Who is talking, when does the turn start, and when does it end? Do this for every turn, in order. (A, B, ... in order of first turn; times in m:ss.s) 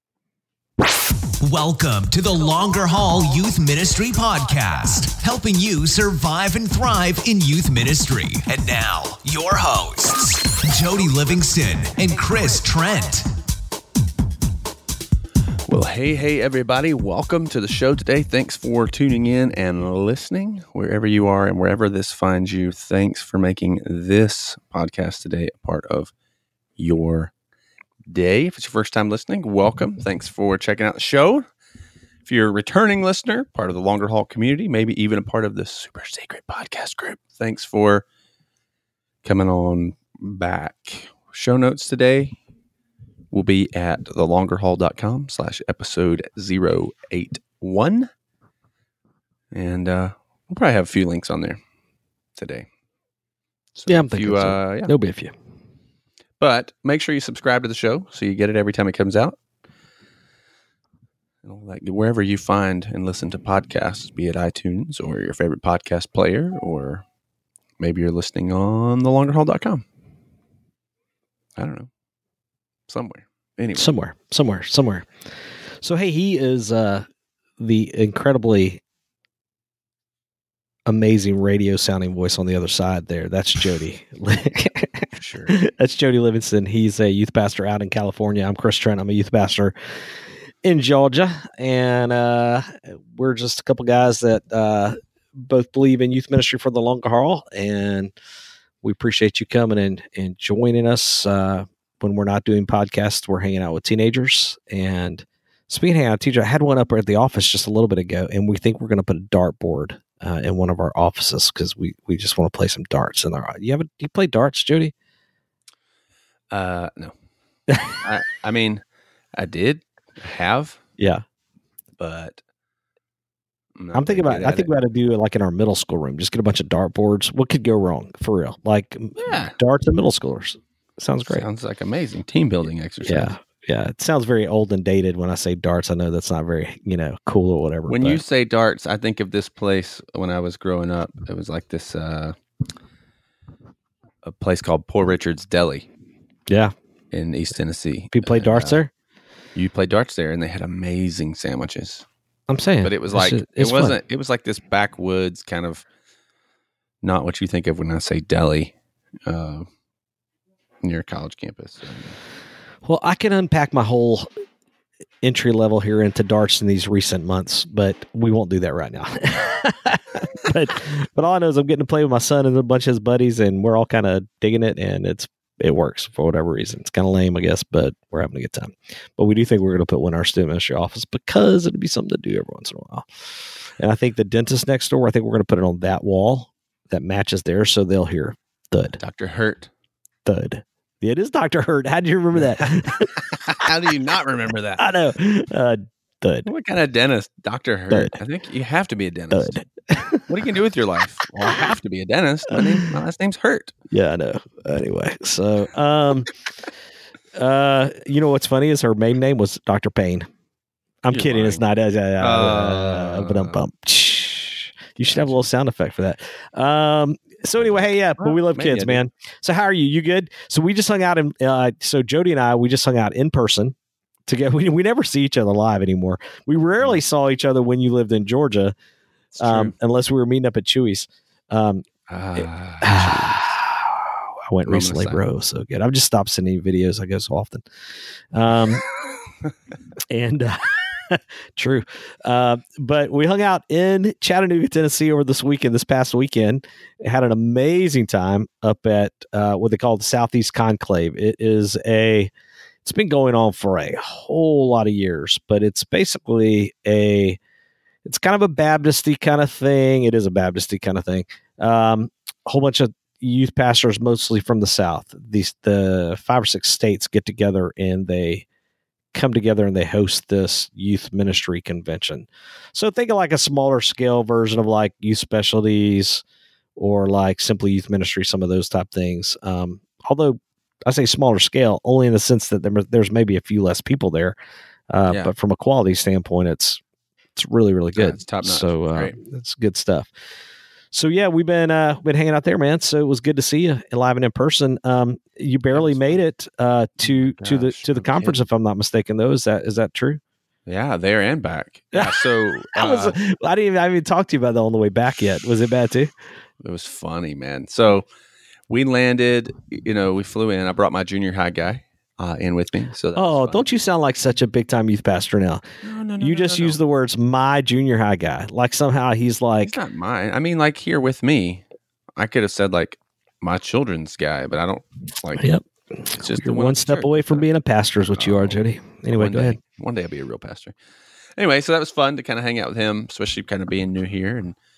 0:01.4-0:13.3 A
0:15.7-0:26.1 B
0:26.8-0:27.3 B
0:28.1-0:31.4 B
0:32.2-0:38.0 B
0:39.2-0:42.4 B
0:43.3-0:48.1 B
0:49.5-0:51.6 B
0:52.4-0:52.7 B
0:53.8-0:54.9 B
0:53.9-0:55.3 C
0:56.4-0:59.4 B
1:01.4-1:07.0 B
1:07.8-1:09.8 B
1:11.6-1:11.9 B
1:12.9-1:13.9 B
1:13.8-1:15.1 C
1:15.8-1:17.1 C
1:17.6-1:18.8 C
1:20.8-1:29.7 C
1:25.2-1:25.5 B
1:30.6-1:38.1 C
1:38.8-1:54.9 C
1:56.5-1:57.1 B
1:57.9-1:58.8 B
1:59.3-2:00.8 B
2:01.0-2:01.2 C
2:02.0-2:02.4 B
2:03.8-2:04.7 B
2:03.9-2:11.4 C
2:09.2-2:09.6 B
2:11.3-2:13.3 B
2:13.0-2:18.2 C
2:17.9-2:22.4 B
2:24.2-2:25.9 B
2:26.5-2:26.7 C
2:27.1-2:28.8 B
2:28.1-2:28.9 C
2:29.5-2:32.0 B
2:32.5-2:34.0 C
2:32.8-2:35.8 B
2:37.0-2:38.7 B
2:39.2-2:39.7 B
2:40.8-2:42.1 B
2:42.8-2:44.3 C
2:45.2-3:03.1 C
3:03.8-3:09.0 C
3:08.9-3:09.7 B
3:10.2-3:13.1 C
3:12.9-3:14.8 B
3:14.8-3:16.5 C
3:16.4-3:19.6 B
3:19.3-3:20.2 C
3:20.3-3:23.7 B
3:22.5-3:22.9 C
3:23.9-3:26.3 C
3:27.3-3:30.3 C
3:31.0-3:43.7 C
3:31.1-3:31.6 B
3:32.2-3:33.6 B
3:35.1-3:35.4 B
3:37.6-3:39.0 B
3:44.3-3:48.7 C
3:49.3-3:49.7 B
3:49.4-3:51.8 C
3:52.1-3:53.6 B
3:52.4-3:57.6 C
3:54.6-3:55.2 B
3:58.3-3:58.8 C
4:00.1-4:12.3 C
4:12.8-4:17.4 C
4:18.0-4:28.4 C
4:29.1-4:36.2 C
4:36.8-4:44.4 C
4:44.9-4:46.8 C
4:45.0-4:45.3 B
4:47.4-4:50.1 C
4:48.0-4:49.1 B
4:50.9-5:00.2 C
4:55.7-4:56.2 B
4:57.0-4:58.4 B
5:00.6-5:03.2 B
5:01.9-5:06.1 C
5:06.6-5:08.1 B
5:08.7-5:13.6 B
5:13.2-5:15.6 C
5:15.8-5:16.8 B
5:16.2-5:19.7 C
5:19.6-5:21.6 B
5:22.2-5:25.6 B
5:25.4-5:29.6 C
5:26.1-5:27.5 B
5:28.1-5:28.6 B
5:29.1-5:30.7 B
5:31.4-5:34.6 B